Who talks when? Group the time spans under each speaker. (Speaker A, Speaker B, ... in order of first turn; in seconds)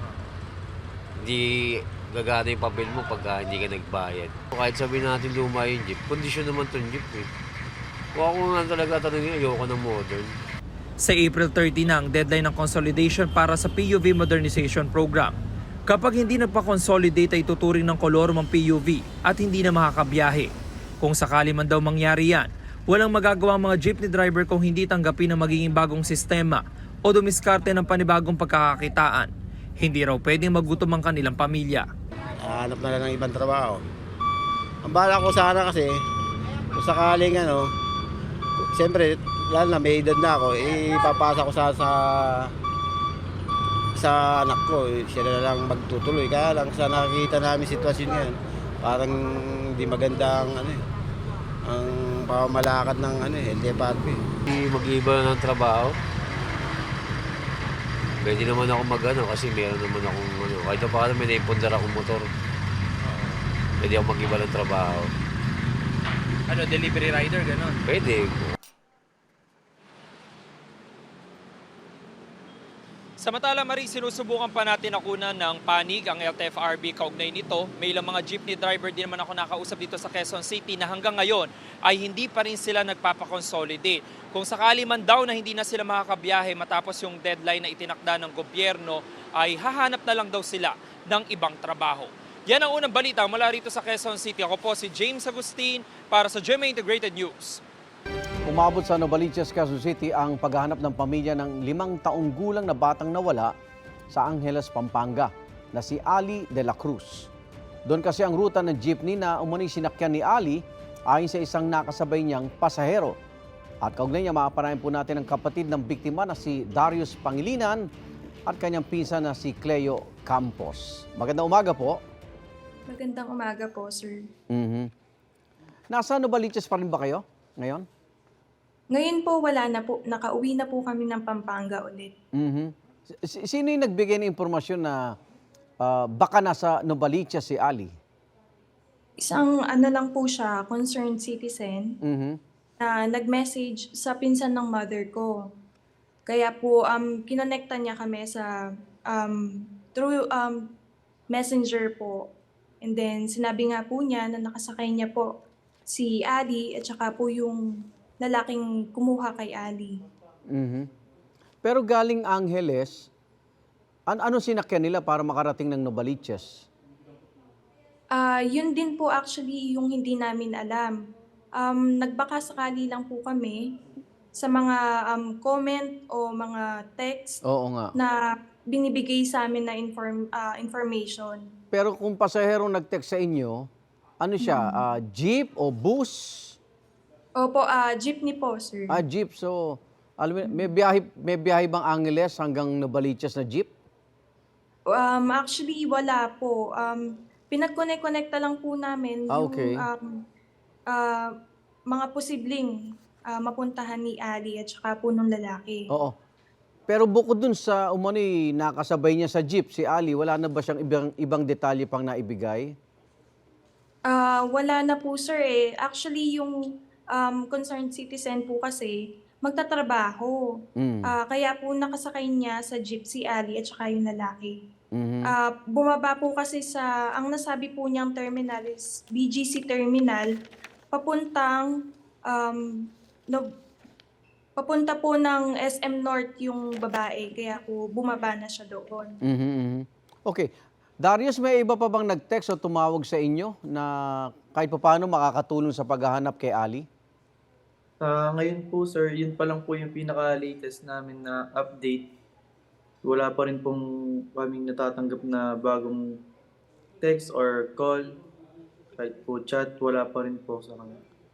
Speaker A: 1.2-7.3, 8.1-10.3, 54.5-55.9, 58.2-62.2, 63.8-65.1, 67.8-68.5
Speaker B: 11.0-15.3, 15.9-31.9, 66.5-67.8, 73.2-97.6
Speaker C: 32.4-33.8, 34.9-35.9, 36.7-37.7, 38.6-42.5, 44.0-49.2, 49.8-50.8, 51.7-54.2
Speaker D: 98.5-103.5, 104.1-107.3, 107.8-113.2, 113.8-117.9, 118.5-122.0, 124.5-124.9, 125.9-127.8, 132.3-135.1, 135.8-137.9, 142.0-142.4, 160.5-160.9, 161.6-163.1, 164.1-166.6, 177.4-177.9, 181.7-183.7, 184.2-186.5, 188.9-193.7, 199.3-199.8, 206.9-212.7, 220.8-221.0, 224.9-225.3, 239.2-240.5, 241.0-246.8
Speaker E: 122.9-124.2, 128.9-132.1, 139.2-141.9, 142.8-145.3, 146.3-148.5, 149.1-150.6, 151.3-152.2, 152.8-155.3, 155.9-157.6, 158.2-159.9, 168.2-170.9, 171.6-173.6, 174.4-177.4, 178.7-181.4, 184.4-184.8, 187.4-189.0, 194.9-200.1, 200.9-201.3, 201.9-202.7, 203.3-205.8, 214.1-216.5, 217.1-220.4, 221.1-224.6, 225.3-230.3, 230.9-231.7, 232.3-232.7, 234.6-239.1
Speaker F: 248.0-252.0, 253.0-253.8, 254.3-256.0, 257.0-258.0, 259.0-261.0